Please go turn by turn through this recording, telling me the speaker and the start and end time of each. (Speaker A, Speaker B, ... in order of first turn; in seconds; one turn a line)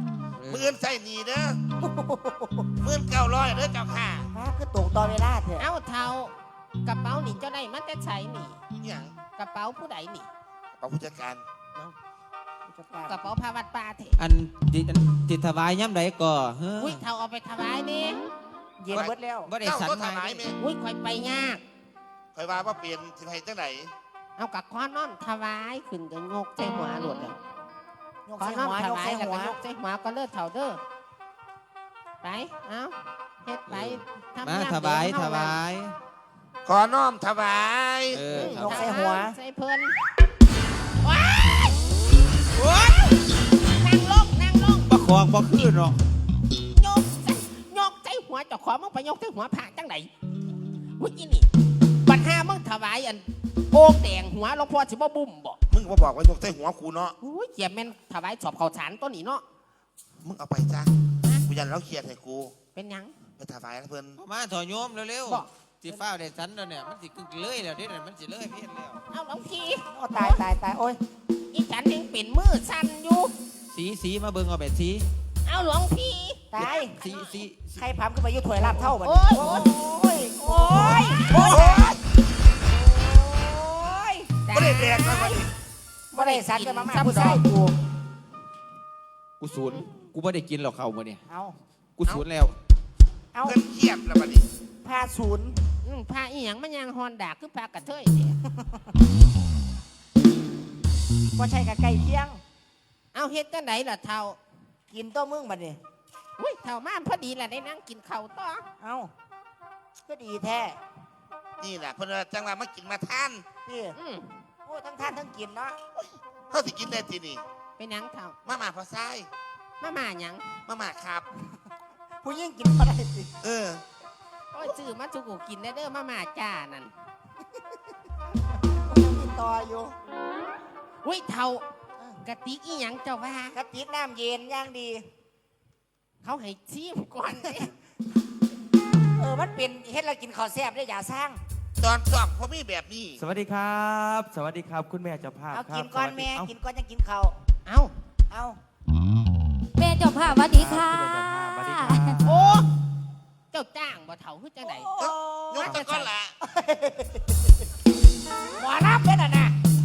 Speaker A: 0.4-0.7
Speaker B: 0.5-1.6
Speaker C: 1.8-2.7
Speaker B: 2.8-4.3
Speaker C: 4.3-5.7
Speaker D: 5.6-8.6
Speaker B: 8.8-9.1
Speaker D: 9.4-10.3
Speaker B: 10.8-11.4
Speaker C: 12.7-13.2
Speaker D: 13.1-14.2
Speaker A: 14.2-17.0
Speaker D: 16.8-18.2
Speaker C: 18.8-19.5
Speaker A: 18.9-20.4
Speaker B: 18.9-20.6
Speaker D: 20.6-21.6
Speaker B: 22.4-23.9
Speaker D: 24.4-27.4
Speaker C: 28.3-29.6
Speaker D: 28.4-30.8
Speaker D: 32.2-35.6
Speaker A: 33.7-36.0
Speaker B: 36.7-38.2
Speaker A: 38.1-38.9
Speaker D: 38.3-40.0
Speaker C: 38.5-39.4
Speaker D: 41.0-41.9
Speaker A: 42.5-43.1
Speaker D: 43.7-44.9
Speaker A: 44.9-46.0
Speaker D: 46.7-50.1
Speaker D: 51.0-51.5
Speaker D: 52.0-55.6
Speaker B: 55.7-57.1
Speaker D: 57.2-59.4
Speaker B: 60.2-60.9
Speaker B: 61.5-62.5
Speaker D: 62.8-63.2
Speaker B: 63.4-64.2
Speaker A: 64.2-69.0
Speaker D: 69.1-70.4
Speaker C: 69.9-71.0
Speaker D: 71.5-73.3
Speaker A: 73.7-75.1
Speaker D: 75.5-77.2
Speaker C: 76.5-77.0
Speaker A: 76.6-77.9
Speaker C: 77.8-82.0
Speaker D: 78.6-79.7
Speaker D: 80.4-81.6
Speaker B: 81.3-82.0
Speaker C: 82.7-84.3
Speaker D: 84.5-85.4
Speaker B: 84.5-85.5
Speaker D: 86.1-87.4
Speaker C: 86.1-87.8
Speaker A: 89.4-91.2
Speaker C: 91.3-91.6
Speaker A: 92.0-92.6
Speaker B: 93.4-94.5
Speaker C: 94.8-95.7
Speaker D: 95.8-98.4
Speaker C: 101.4-102.4
Speaker D: 103.1-104.4
Speaker C: 104.9-105.8
Speaker D: 106.4-108.7
Speaker C: 108.8-109.1
Speaker C: 110.1-110.8
Speaker B: 111.6-113.5
Speaker C: 113.7-114.0
Speaker D: 114.0-114.5
Speaker C: 114.7-115.8
Speaker B: 116.0-117.4
Speaker D: 117.8-118.4
Speaker B: 118.5-119.3
Speaker D: 119.8-120.6
Speaker B: 120.7-121.3
Speaker C: 122.2-123.3
Speaker B: 123.4-123.8
Speaker D: 124.5-126.9
Speaker C: 128.7-129.9
Speaker D: 131.0-131.6
Speaker D: 132.2-133.6
Speaker C: 133.5-135.1
Speaker D: 136.2-137.7
Speaker C: 139.2-141.4
Speaker B: 141.8-143.2
Speaker E: 143.2-146.5
Speaker C: 145.5-147.4
Speaker D: 147.7-147.9
Speaker C: 148.3-148.6
Speaker F: 149.8-152.2
Speaker E: 150.5-152.3
Speaker D: 152.2-152.7
Speaker D: 153.5-154.9
Speaker C: 154.6-155.8
Speaker B: 155.0-156.3
Speaker D: 155.6-156.1
Speaker C: 156.4-157.4
Speaker C: 158.6-159.6